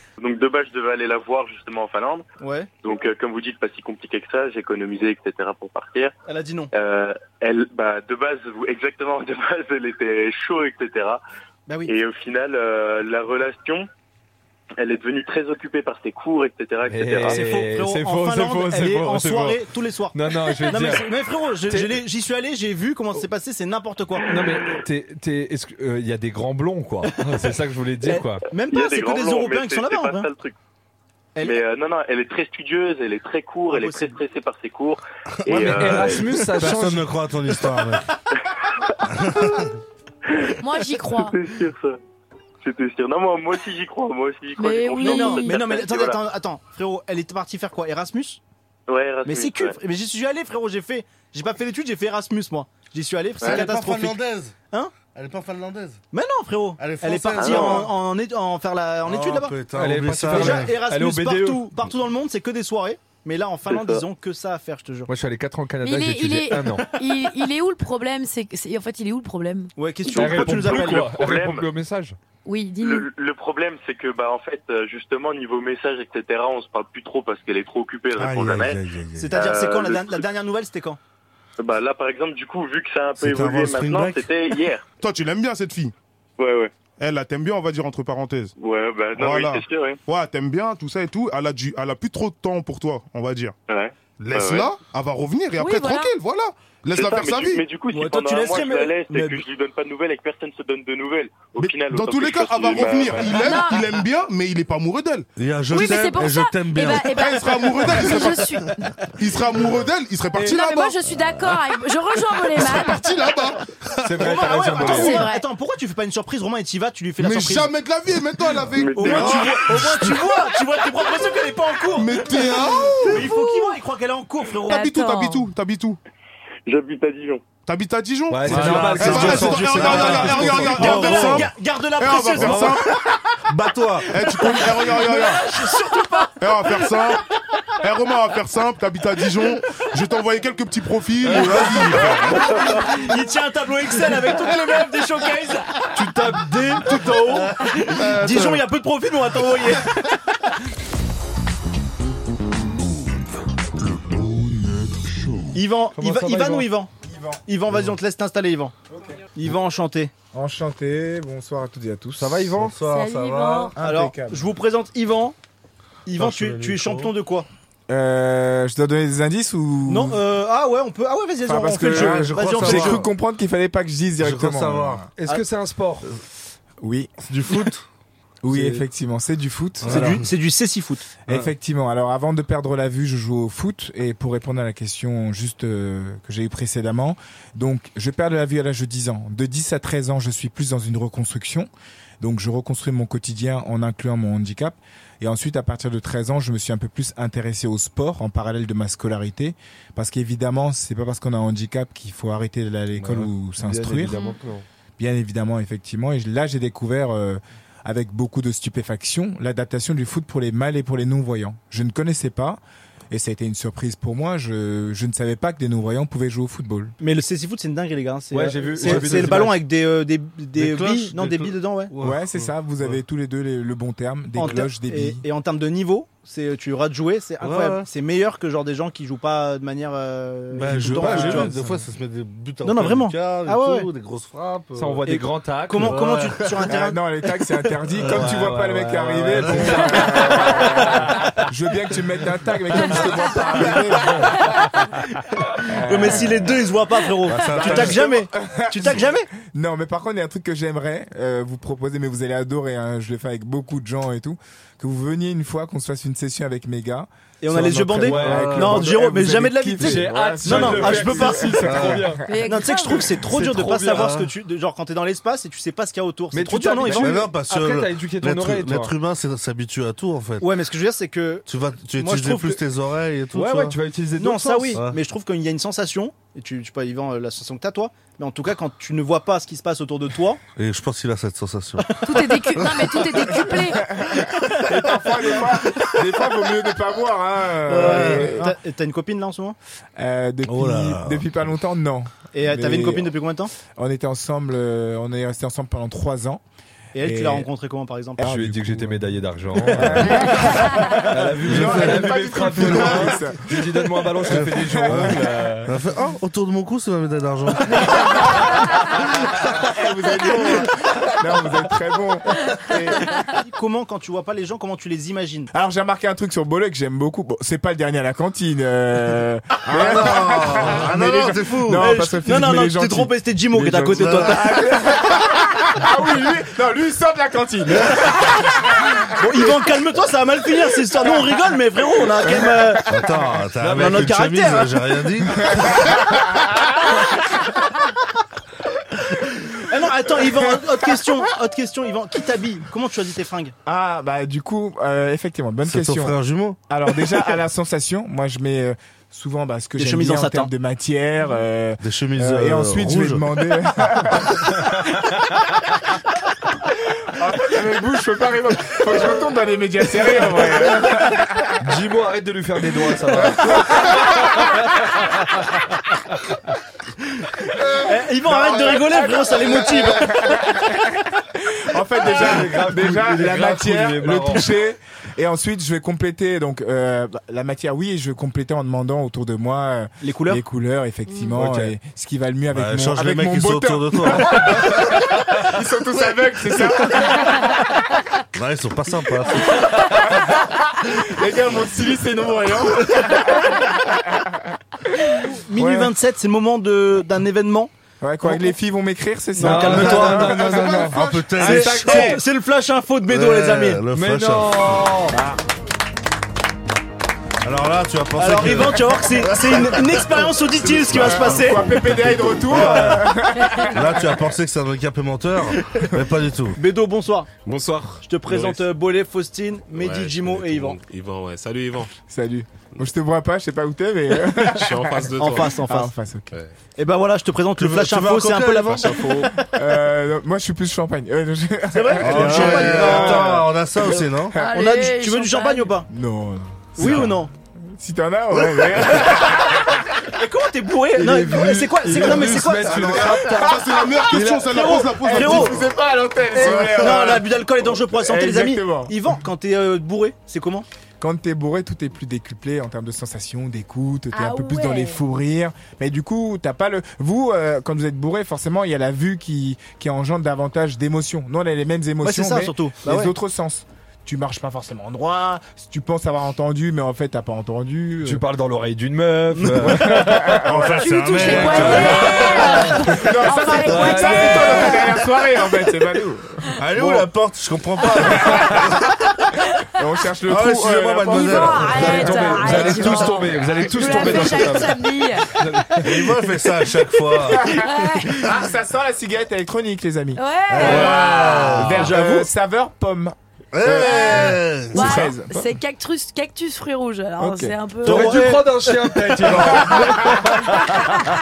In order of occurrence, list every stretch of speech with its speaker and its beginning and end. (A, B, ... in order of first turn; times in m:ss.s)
0:00.2-0:02.3 A
0:02.4-0:02.7 B
0:02.8-0:06.1 A
0:06.3-0:06.7 B
0:06.7-0:11.2 A
0:11.7-0:11.9 B
0:11.9-0:13.9 A
0:14.8-0:17.4 A
0:16.9-0:19.6 C
0:17.2-0:24.3 B
0:20.1-0:21.1 C
0:21.7-0:22.0 C
0:24.3-0:28.4 C
0:28.0-0:30.3 B
0:28.7-0:30.6 A
0:31.4-0:31.6 B
0:31.4-0:36.2 A
0:33.7-0:34.2 B
0:35.4-0:38.1 D
0:35.5-0:37.1 C
0:39.1-0:39.7 D
0:40.6-0:41.4 E
0:41.2-0:42.0 A
0:42.6-0:46.2 A
0:44.6-0:45.6 E
0:45.0-0:48.4 B
0:48.9-0:49.8 A
0:49.2-0:54.2 B
0:53.4-0:53.7 A
0:53.4-0:54.5 D
0:55.0-0:56.0 D
0:56.1-0:59.6 B
0:56.8-0:57.9 D
0:57.4-0:57.9 A
0:59.0-1:00.8 D
0:59.7-1:01.7 C
1:00.2-1:05.1 B
1:03.7-1:04.0 A
1:05.1-1:06.9 C
1:05.8-1:09.7 E
1:09.8-1:11.1 B
1:10.1-1:12.2 C
1:10.2-1:11.7 A
1:12.4-1:13.1 E
1:12.8-1:20.3 A
1:18.2-1:19.4 D
1:19.2-1:21.0 B
1:21.6-1:24.8 A
1:23.2-1:24.3 D
1:25.0-1:25.9 F
1:26.4-1:26.7 A
1:27.0-1:28.5 F
1:28.6-1:30.0 A
1:29.2-1:33.6 F
1:33.7-1:34.7 A
1:34.2-1:37.7 F
1:35.6-1:36.1 E
1:36.9-1:43.6 A
1:37.9-1:39.4 B
1:41.6-1:45.3 F
1:43.4-1:43.8 E
1:45.4-1:47.1 D
1:45.7-1:49.1 E
1:47.0-1:48.6 F
1:49.2-1:51.0 F
1:50.3-1:53.2 E
1:52.6-1:53.8 F
1:54.0-1:55.3 C
1:54.2-1:57.7 B
1:54.8-1:55.4 E
1:57.2-2:00.2 F
1:58.7-1:59.5 A
1:59.0-2:04.9 B
2:01.9-2:03.3 F
2:03.0-2:03.8 E
2:04.7-2:06.0 F
2:04.7-2:05.5 E
2:06.7-2:07.4 A
2:07.7-2:12.9 F
2:08.3-2:11.0 C
2:08.5-2:12.8 B
2:08.6-2:11.5 D
2:12.4-2:12.8 D
2:13.5-2:14.1 D
2:14.1-2:15.5 F
2:14.2-2:16.4 B
2:15.6-2:16.2 E
2:16.4-2:17.2 F
2:17.8-2:22.3 F
2:21.3-2:21.8 D
2:21.3-2:25.9 B
2:26.0-2:27.5 C
2:27.0-2:30.0 B
2:28.1-2:28.6 F
2:35.5-2:36.9 B
2:35.9-2:36.7 C
2:37.0-2:37.4 G
2:37.4-2:38.8 B
2:39.3-2:40.1 B
2:40.3-2:42.5 G
2:42.2-2:42.8 C
2:42.5-2:43.8 D
2:42.9-2:43.7 E
2:43.8-2:44.4 G
2:43.8-2:45.4 B
2:46.1-2:47.5 B
2:46.2-2:47.1 D
2:47.9-2:50.2 G
2:49.9-2:53.1 B
2:51.5-2:55.1 G
2:51.8-2:53.1 D
2:54.2-2:55.1 D
2:55.2-2:56.0 C
2:56.8-2:57.1 G
2:57.2-2:57.8 D
2:58.4-3:00.3 G
2:59.8-3:00.2 D
2:59.9-3:01.1 B
3:01.3-3:24.1 G
3:23.0-3:24.6 C
3:24.1-3:24.4 E
3:25.0-3:32.6 G
3:33.1-3:37.0 G
3:37.0-3:41.9 B
3:38.3-3:39.6 C
3:38.8-3:39.5 D
3:40.6-3:42.5 D
3:42.0-3:45.2 G
3:44.4-3:51.6 B
3:47.4-3:47.9 D
3:50.5-3:55.2 D
3:50.9-3:51.5 C
3:52.6-3:53.9 B
3:54.8-3:56.1 C
3:55.1-3:57.0 B
3:55.8-3:56.6 D
3:56.6-4:04.4 G
3:58.0-3:58.6 D
3:58.1-4:00.6 C
3:59.2-4:00.1 D
4:05.7-4:06.3 G
4:05.7-4:09.3 B
4:07.3-4:08.2 D
4:07.4-4:22.2 G
4:17.4-4:21.8 B
4:18.0-4:18.9 C
4:18.2-4:18.8 D
4:19.8-4:22.2 C
4:21.6-4:22.1 D
4:22.3-4:23.1 E
4:22.4-4:27.3 B
4:23.4-4:24.1 C
4:23.4-4:24.3 D
4:26.3-4:28.9 C
4:26.9-4:30.5 D
4:30.4-4:32.6 B
4:31.5-4:33.8 D
4:33.3-4:34.8 C
4:34.2-4:40.4 B
4:40.6-4:42.8 D
4:42.0-4:43.8 E
4:43.4-4:48.6 G
4:47.7-4:48.4 D
4:48.0-4:49.6 B
4:50.0-4:56.4 G
4:50.5-4:51.3 D
4:52.3-4:53.5 B
4:57.0-4:58.4 B
4:57.0-4:57.5 G
4:58.2-5:03.6 G
4:58.2-5:00.3 C
5:01.1-5:05.7 C
5:01.5-5:03.0 D
5:04.3-5:05.2 G
5:04.3-5:08.1 D
5:09.6-5:13.2 G
5:13.4-5:15.5 B
5:15.5-5:29.6 G
5:19.7-5:22.0 D
5:21.8-5:24.8 B
5:23.9-5:24.6 D
5:29.2-5:32.9 B
5:32.2-5:33.4 G
5:32.9-5:35.6 D
5:33.6-5:34.1 C
5:33.7-5:35.0 B
5:35.3-5:37.0 G
5:39.7-5:43.6 B
5:40.2-5:40.7 G
5:43.7-5:46.2 G
5:45.6-5:46.6 D
5:46.7-5:54.5 G
5:49.8-5:50.5 B
5:51.8-5:53.2 D
5:57.2-6:01.6 G
6:01.6-6:03.9 C
6:03.2-6:04.3 G
6:07.8-6:10.4 B
6:08.3-6:11.1 G
6:11.6-6:27.7 G
6:12.1-6:14.5 C
6:20.0-6:20.4 B
6:21.4-6:21.7 C
6:22.5-6:24.8 D
6:28.3-6:29.7 D
6:29.4-6:34.4 G
6:35.0-6:35.9 G
6:35.2-6:37.7 B
6:38.0-6:42.2 G
6:38.2-6:38.5 B
6:39.4-6:40.8 B
6:39.4-6:41.0 C
6:40.4-6:42.2 D
6:41.4-6:43.8 B
6:43.1-6:45.0 D
6:43.9-6:45.2 C
6:45.1-6:45.4 G
6:47.4-6:53.1 D
6:48.2-6:51.8 B
6:50.9-6:54.2 G
6:53.7-6:56.6 D
6:56.6-6:57.3 B
6:57.4-6:58.6 H
6:58.0-7:00.8 B
6:59.7-7:01.9 H
7:01.9-7:05.0 G
7:04.6-7:05.6 H
7:05.2-7:05.9 B
7:05.6-7:06.3 G
7:06.8-7:09.0 B
7:07.6-7:09.0 D
7:08.8-7:09.3 H
7:09.2-7:14.6 G
7:11.7-7:15.9 B
7:12.0-7:14.4 D
7:14.4-7:15.7 E
7:15.9-7:17.2 G
7:16.8-7:17.3 B
7:17.8-7:19.7 G
7:20.1-7:23.4 B
7:21.0-7:23.6 C
7:22.0-7:29.0 G
7:23.3-7:25.6 F
7:24.1-7:25.6 B
7:26.4-7:30.7 B
7:31.0-7:48.2 G
7:34.1-7:35.0 E
7:42.0-7:43.2 B
7:48.0-7:50.4 C
7:49.5-7:52.6 D
7:49.6-7:57.1 G
7:50.8-7:54.9 E
7:51.4-7:52.7 C
7:53.7-7:54.7 C
7:56.6-7:58.7 D
7:58.1-7:58.6 G
7:59.8-8:02.2 G
8:00.3-8:03.2 D
8:01.1-8:05.3 E
8:01.8-8:06.0 C
8:04.2-8:04.5 D
8:05.8-8:07.5 D
8:07.3-8:15.4 G
8:07.5-8:08.3 E
8:10.2-8:11.5 E
8:10.5-8:12.0 D
8:10.9-8:12.3 B
8:13.5-8:15.0 D
8:13.8-8:18.2 E
8:17.2-8:17.6 G
8:17.8-8:18.7 B
8:17.8-8:20.6 C
8:19.3-8:20.3 G